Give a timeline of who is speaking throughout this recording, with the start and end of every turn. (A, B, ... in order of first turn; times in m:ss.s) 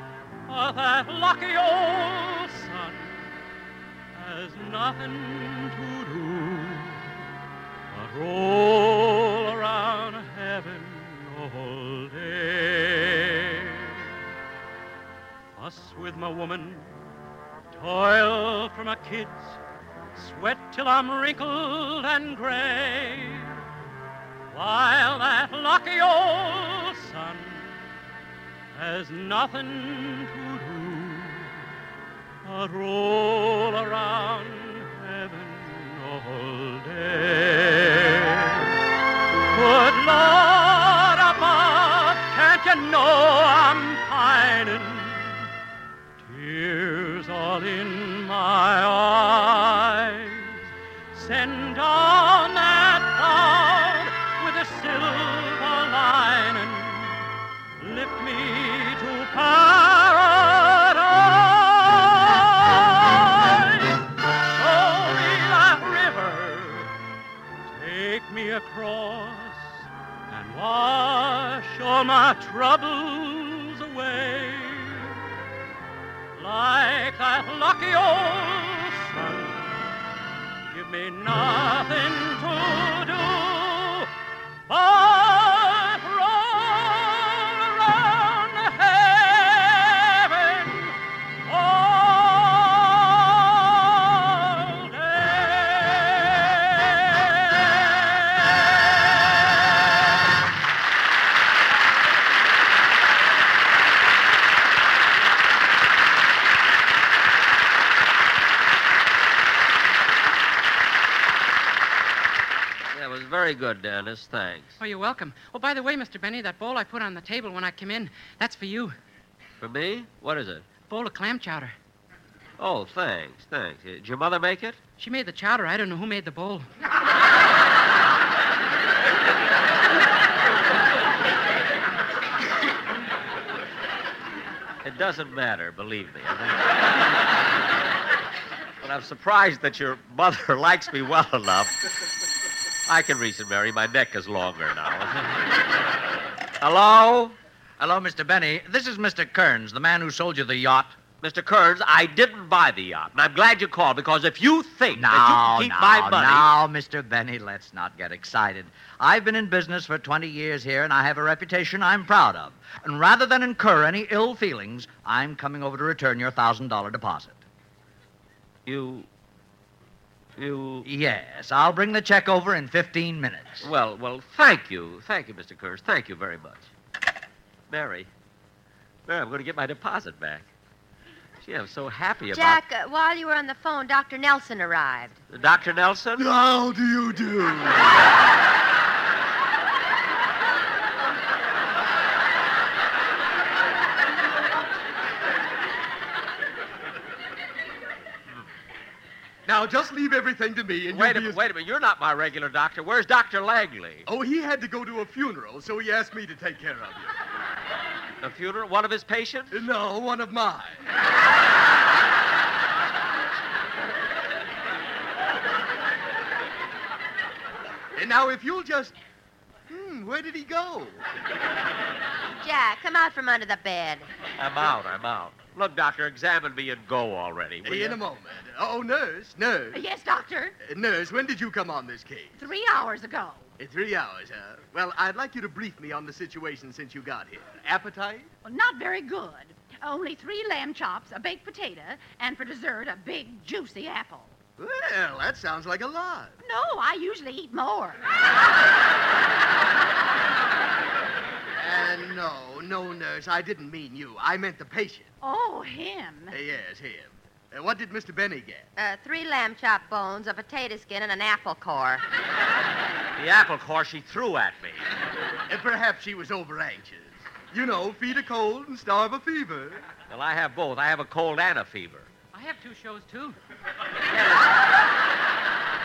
0:00.5-0:03.3 A
0:04.1-0:07.1 A
0:07.9-0:14.0 A
0:15.6-0:17.0 A
0:17.7-0:19.6 A
0:20.1-0:23.6 A
0:24.5-0:27.7 A
0:28.7-0:31.5 A
0:32.4-0:38.7 A
0:39.5-0:45.5 A
0:46.2-0:50.6 A
0:51.1-0:57.2 A
0:57.8-1:06.9 A
1:07.7-1:15.2 A
1:16.3-1:19.9 A
1:20.7-1:24.1 A
1:24.7-1:39.8 A
1:52.9-1:54.8 B
1:54.8-1:58.9 C
1:59.6-2:00.6 B
2:00.9-2:01.7 C
2:02.6-2:04.8 B
2:05.0-2:06.7 C
2:14.8-2:16.6 B
2:18.8-2:21.7 B
2:22.9-2:25.3 B
2:26.6-2:27.4 B
2:27.8-2:31.0 D
2:31.2-2:36.6 B
2:34.9-2:47.4 D
2:48.6-2:49.1 B
2:50.4-2:50.9 B
2:50.8-2:53.7 D
2:53.6-2:56.7 B
2:57.7-2:58.1 B
2:59.1-3:00.5 B
3:01.4-3:02.6 B
3:02.3-3:05.2 E
3:05.3-3:06.3 B
3:06.2-3:07.9 F
3:19.4-3:21.4 F
3:20.9-3:24.1 B
3:24.1-3:27.1 F
3:28.2-3:29.6 B
3:29.5-3:30.8 F
3:38.0-3:38.9 F
3:39.7-3:41.0 F
3:42.4-3:44.1 E
3:44.4-3:48.0 B
3:47.6-3:49.8 F
3:49.7-3:50.5 G
3:50.6-3:52.4 F
3:52.4-3:53.4 G
3:53.6-3:58.3 F
3:58.4-4:04.4 G
4:04.6-4:06.3 F
4:06.4-4:08.0 G
4:11.6-4:15.1 F
4:15.2-4:16.3 G
4:16.3-4:18.7 F
4:18.8-4:22.0 E
4:23.2-4:24.8 B
4:25.5-4:29.8 F
4:30.1-4:32.1 B
4:32.3-4:33.4 C
4:34.1-4:34.5 B